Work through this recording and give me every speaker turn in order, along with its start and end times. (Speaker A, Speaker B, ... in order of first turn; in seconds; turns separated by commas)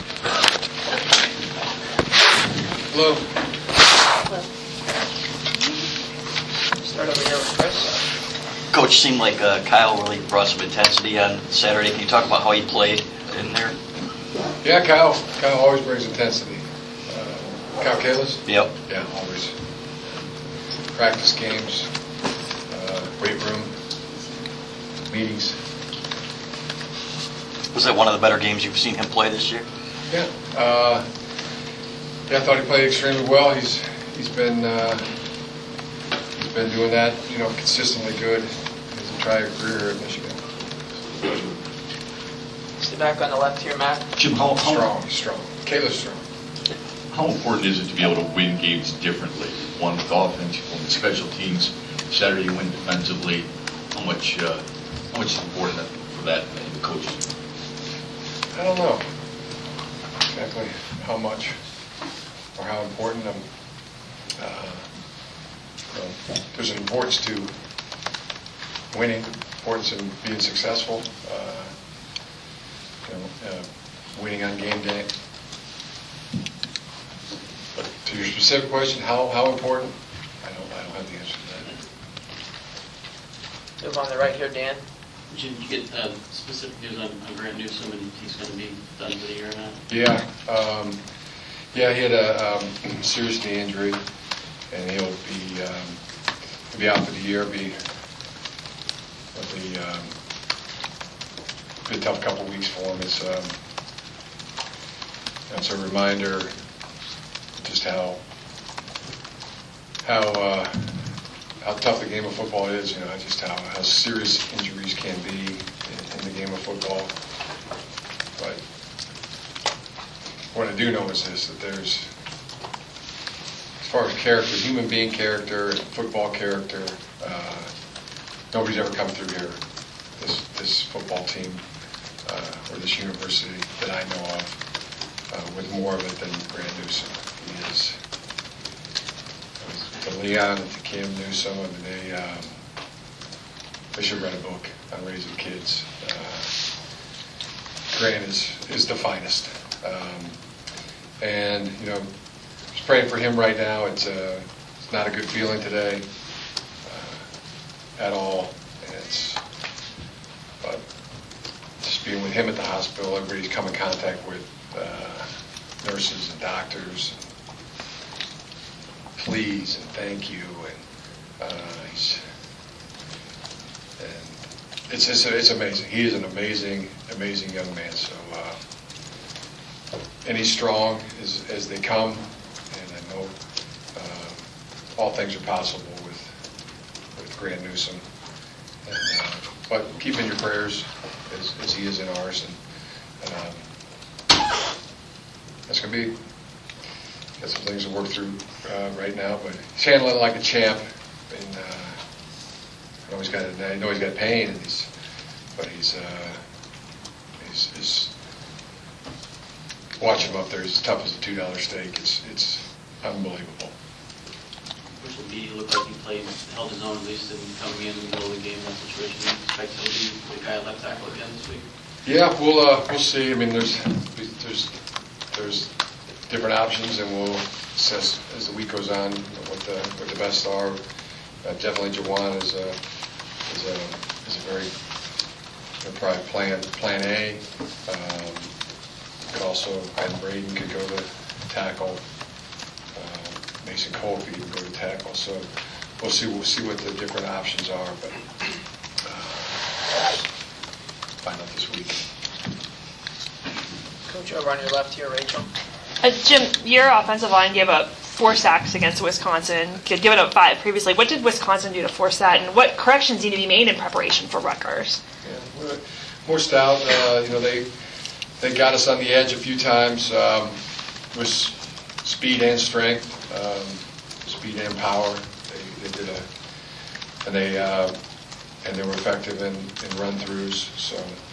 Speaker A: 2.9-3.2, Speaker B: 6.8-8.0, Speaker C: 8.7-13.7, Speaker A: 14.6-19.5, Speaker A: 20.9-21.9, Speaker A: 22.7-23.7, Speaker A: 25.1-25.6, Speaker C: 27.7-29.6, Speaker A: 30.1-31.0, Speaker A: 32.3-35.0, Speaker A: 36.4-40.4, Speaker A: 41.1-41.5, Speaker B: 42.8-44.0, Speaker D: 44.2-44.6, Speaker A: 44.5-46.2, Speaker D: 47.1-54.6, Speaker D: 55.1-57.2, Speaker A: 58.5-59.0, Speaker A: 60.3-61.5, Speaker A: 62.5-63.4, Speaker A: 64.4-64.8, Speaker A: 65.9-67.5, Speaker A: 68.9-71.7, Speaker A: 73.0-75.1, Speaker A: 78.0-81.7, Speaker B: 83.8-84.8, Speaker E: 85.3-89.8, Speaker A: 89.9-91.0, Speaker A: 91.7-94.0, Speaker A: 94.7-96.0, Speaker A: 96.7-97.7, Speaker A: 99.3-100.1, Speaker A: 101.8-103.5, Speaker A: 105.5-106.5, Speaker A: 107.6-108.2, Speaker A: 110.0-111.0, Speaker A: 111.6-117.1, Speaker A: 120.5-122.0, Speaker A: 123.8-127.7, Speaker A: 128.5-129.6, Speaker A: 130.2-131.6, Speaker A: 132.2-134.6, Speaker A: 135.3-137.9, Speaker A: 139.6-142.5, Speaker A: 143.9-146.5, Speaker A: 147.9-150.3, Speaker A: 151.2-152.1, Speaker A: 152.7-156.0, Speaker A: 156.9-157.2, Speaker A: 158.0-159.4, Speaker A: 161.8-165.2, Speaker A: 165.8-167.2, Speaker A: 169.2-170.8, Speaker A: 171.4-172.2, Speaker A: 174.0-178.6, Speaker A: 180.2-183.3, Speaker A: 183.9-184.4, Speaker A: 184.9-186.3, Speaker A: 187.2-188.0, Speaker A: 188.8-192.6, Speaker A: 193.2-193.6, Speaker A: 195.7-196.1, Speaker A: 197.4-201.9, Speaker A: 203.1-204.9, Speaker A: 205.6-206.4, Speaker A: 207.4-208.1, Speaker A: 210.0-213.7, Speaker E: 214.9-221.6, Speaker A: 222.0-224.7, Speaker A: 225.3-225.7, Speaker A: 226.3-230.8, Speaker A: 231.4-232.8, Speaker A: 233.5-234.7, Speaker A: 235.8-238.5, Speaker A: 239.3-242.0, Speaker A: 242.9-245.4, Speaker A: 246.0-248.1, Speaker A: 249.0-249.8, Speaker A: 251.2-252.0, Speaker B: 254.1-255.5, Speaker F: 256.0-265.0, Speaker A: 265.2-267.7, Speaker A: 268.4-270.6, Speaker A: 271.1-276.2, Speaker A: 277.2-277.9, Speaker A: 278.6-281.1